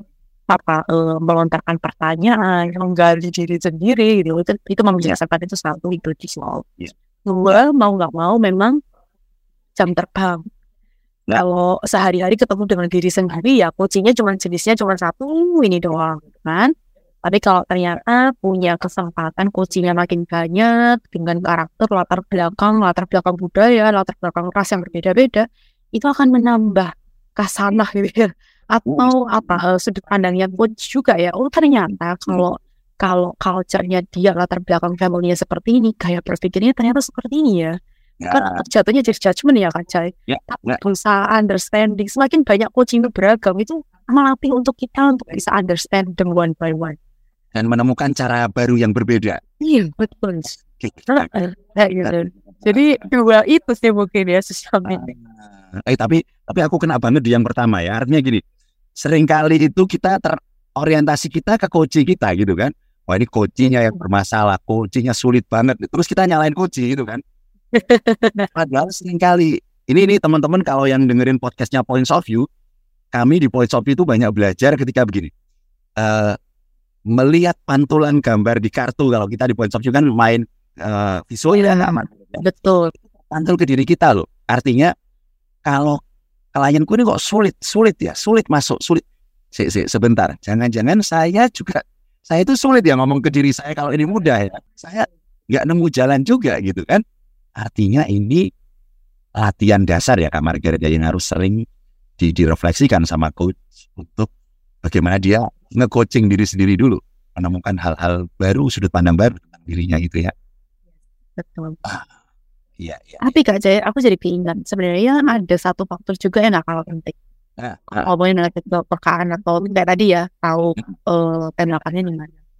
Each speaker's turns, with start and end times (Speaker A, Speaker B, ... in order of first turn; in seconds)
Speaker A: 0.5-6.7, 7.2-8.8, 9.8-10.4, 11.3-16.7, 17.2-37.8, 38.3-47.0, 49.6-50.5, 51.1-55.1, 67.7-68.5, 81.9-82.9, 111.4-111.8, 113.2-117.2, 118.0-122.3
Speaker B: 38.2-38.6, 40.3-40.8, 47.5-49.4, 50.8-51.3, 54.9-55.2, 55.7-58.4, 59.0-67.2, 68.5-72.5, 73.1-75.3, 76.0-76.4, 77.1-82.4, 83.3-84.9, 85.7-86.0, 86.5-97.0, 97.6-98.4, 99.4-101.6, 102.2-104.3, 104.8-110.3, 111.8-112.1, 112.8-113.2, 117.6-118.1